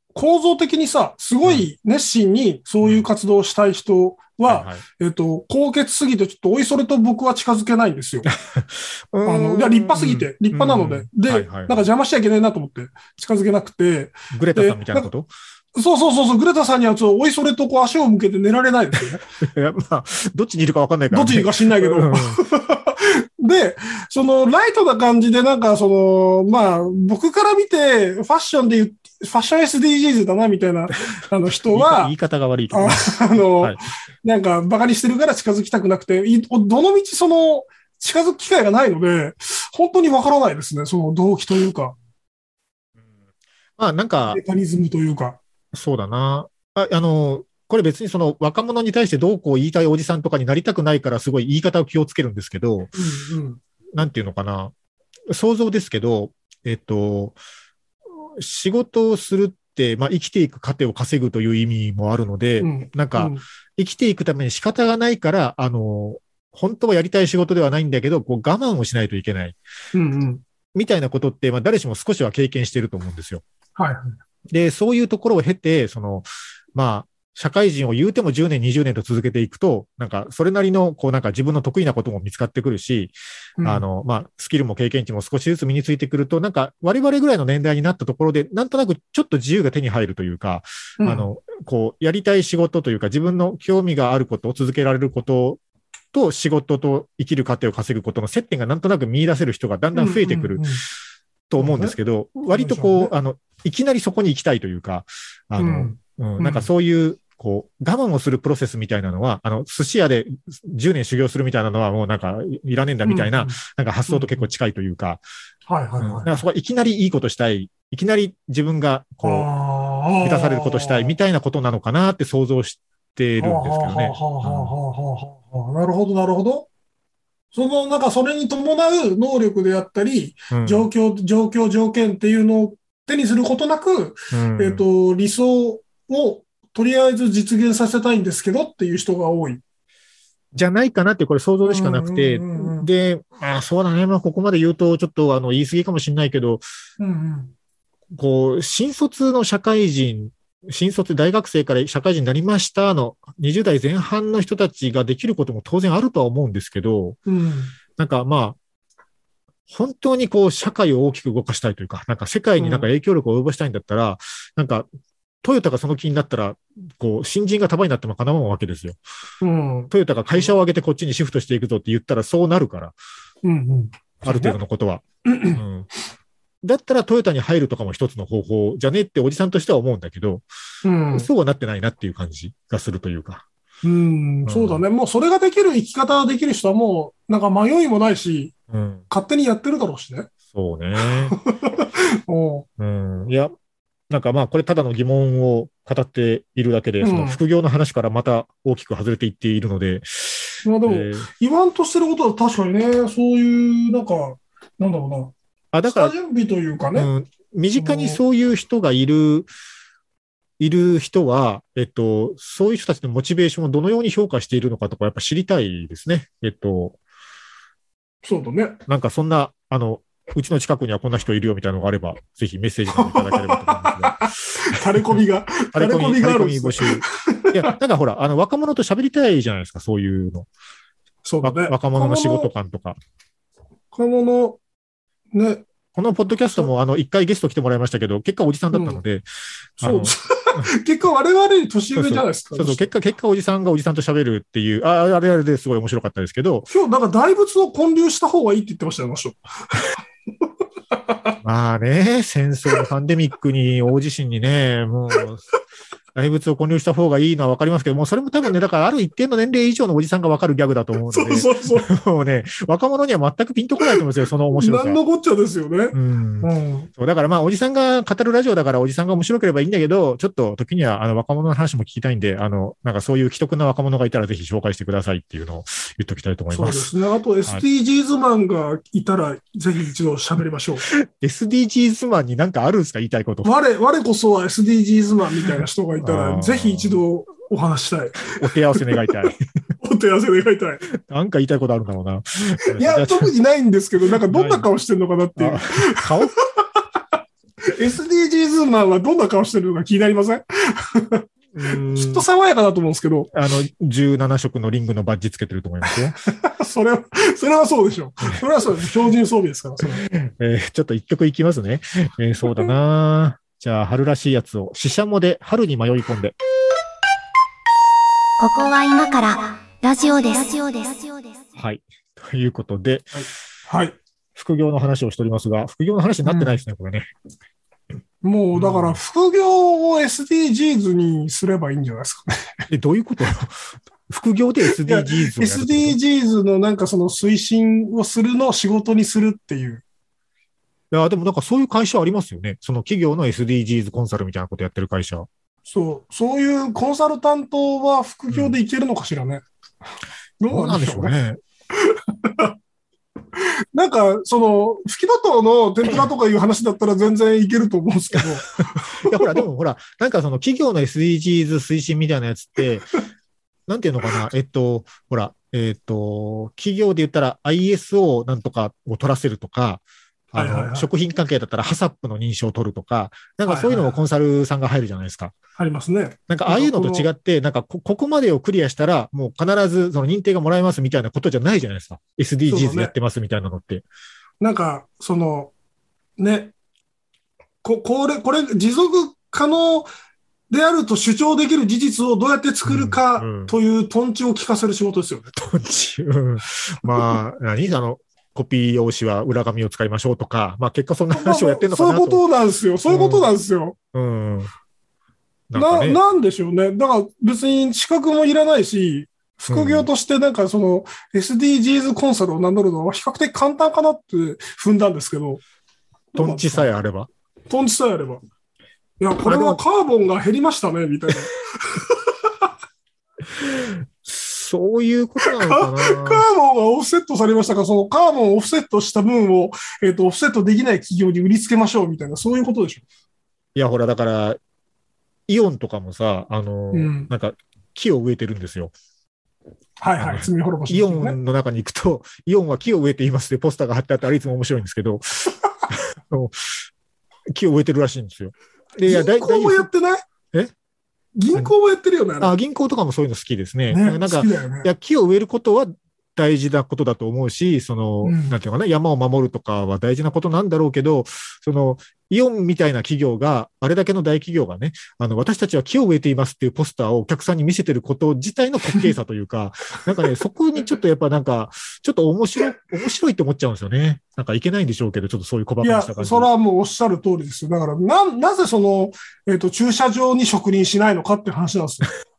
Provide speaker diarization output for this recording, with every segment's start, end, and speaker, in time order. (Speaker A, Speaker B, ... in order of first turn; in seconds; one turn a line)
Speaker A: 0.1-8.3
Speaker B: 2.8-3.1
Speaker B: 4.5-4.8
Speaker B: 8.2-11.8
Speaker A: 9.2-15.1
Speaker B: 14.3-15.3
Speaker A: 15.7-19.2
Speaker B: 19.4-22.4
Speaker A: 21.1-32.1
Speaker B: 31.6-33.8
Speaker A: 32.7-42.0
Speaker B: 43.8-44.4
Speaker A: 44.3-45.4
Speaker B: 45.7-52.9
Speaker A: 52.9-53.6
Speaker B: 53.9-54.7
Speaker B: 55.3-57.4
Speaker B: 58.4-69.5
Speaker A: 62.6-63.4
Speaker A: 69.9-70.4
Speaker B: 70.7-73.4
Speaker A: 73.8-74.2
Speaker B: 74.5-95.6
Speaker A: 83.6-83.8
Speaker A: 91.0-91.3
Speaker B: 96.1-100.7
Speaker A: 99.9-100.8
Speaker B: 101.5-115.2
Speaker A: 101.6-101.9
Speaker A: 102.5-103.1
Speaker A: 105.6-106.7
Speaker A: 113.0-114.5
Speaker A: 115.7-116.3
Speaker B: 116.0-119.5
Speaker A: 119.2-121.1
Speaker B: 120.2-124.7
Speaker A: 123.4-126.7
Speaker A: 127.5-139.6
Speaker B: 130.5-130.9
Speaker B: 134.3-134.8
Speaker B: 140.5-146.6
Speaker A: 141.6-142.9
Speaker A: 147.0-147.5
Speaker B: 148.1-157.2
Speaker A: 157.3-157.7
Speaker B: 157.9-158.6
Speaker B: 159.7-164.8
Speaker A: 162.6-162.9
Speaker B: 165.4-169.0
Speaker A: 169.4-170.5
Speaker B: 169.9-172.9
Speaker A: 173.4-174.6
Speaker B: 174.2-175.9
Speaker A: 175.2-175.6
Speaker B: 176.6-180.4
Speaker A: 180.8-181.3
Speaker B: 181.1-183.4
Speaker A: 183.8-188.5
Speaker B: 184.4-184.8
Speaker B: 188.7-189.0
Speaker A: 189.1-190.3
Speaker B: 190.5-191.3
Speaker A: 191.0-192.7
Speaker B: 192.8-193.5
Speaker B: 194.1-201.3
Speaker A: 197.0-197.4
Speaker A: 200.6-205.3
Speaker B: 205.7-206.1
Speaker A: 205.9-207.1
Speaker B: 206.9-209.5
Speaker A: 207.8-208.2
Speaker B: 210.6-216.9
Speaker A: 218.2-218.8
Speaker B: 218.9-225.2
Speaker A: 222.9-227.8
Speaker B: 225.7-230.5
Speaker A: 231.2-232.5
Speaker B: 231.4-233.0
Speaker A: 233.9-234.6
Speaker A: 235.3-235.6
Speaker B: 235.9-239.2
Speaker A: 238.7-239.0
Speaker B: 239.8-240.7
Speaker A: 239.8-242.9
Speaker B: 241.9-246.7
Speaker A: 246.7-249.8
Speaker A: 250.9-251.3
Speaker B: 251.4-255.4
Speaker B: 256.1-265.0
Speaker A: 261.1-261.9
Speaker A: 264.5-266.9
Speaker B: 265.9-276.9
Speaker A: 276.5-280.8
Speaker B: 280.8-283.5
Speaker A: 283.4-289.1
Speaker B: 285.5-287.0
Speaker B: 288.2-289.4
Speaker A: 289.8-290.8
Speaker B: 290.9-293.3
Speaker A: 292.7-296.1
Speaker B: 294.3-294.7
Speaker B: 295.4-296.3
Speaker A: 297.7-301.2
Speaker B: 301.5-302.2
Speaker A: 301.9-303.3
Speaker B: 303.3-306.1
Speaker A: 305.9-310.0
Speaker B: 308.2-309.0
Speaker B: 309.8-316.4
Speaker C: 318.4-321.4
Speaker B: 321.6-323.2
Speaker A: 323.1-323.9
Speaker B: 324.4-327.1
Speaker A: 326.2-326.5
Speaker A: 328.2-332.6
Speaker B: 328.5-329.0
Speaker B: 332.7-336.0
Speaker A: 334.7-339.8
Speaker B: 340.9-345.3
Speaker A: 345.7-349.4
Speaker B: 348.3-348.6
Speaker A: 350.4-351.1
Speaker B: 350.5-351.4
Speaker A: 351.8-352.5
Speaker A: 353.4-359.3
Speaker B: 358.6-362.9
Speaker B: 363.7-369.8
Speaker B: 370.3-375.3
Speaker A: 370.4-370.9
Speaker A: 373.4-374.0
Speaker A: 375.6-377.1
Speaker B: 376.3-383.8
Speaker A: 382.5-382.9
Speaker A: 384.4-385.5
Speaker A: 386.2-386.5
Speaker A: 387.6-389.9
Speaker A: 390.5-395.3
Speaker B: 392.6-393.5
Speaker B: 395.3-402.2
Speaker A: 401.1-403.8
Speaker B: 402.9-403.3
Speaker B: 403.9-404.5
Speaker B: 405.5-406.0
Speaker A: 405.5-415.4
Speaker B: 409.5-409.9
Speaker A: 416.1-416.7
Speaker B: 416.1-417.1
Speaker A: 417.5-418.2
Speaker A: 419.0-422.5
Speaker B: 419.2-419.6
Speaker B: 423.4-426.3
Speaker A: 425.2-432.8
Speaker B: 433.5-434.4
Speaker B: 435.3-438.7
Speaker A: 436.7-437.1
Speaker A: 439.8-441.2
Speaker B: 440.0-446.6
Speaker B: 447.3-449.7
Speaker A: 448.9-450.0
Speaker A: 451.2-452.3
Speaker B: 452.2-476.3
Speaker A: 453.7-454.7
Speaker A: 458.0-458.3
Speaker A: 475.6-481.9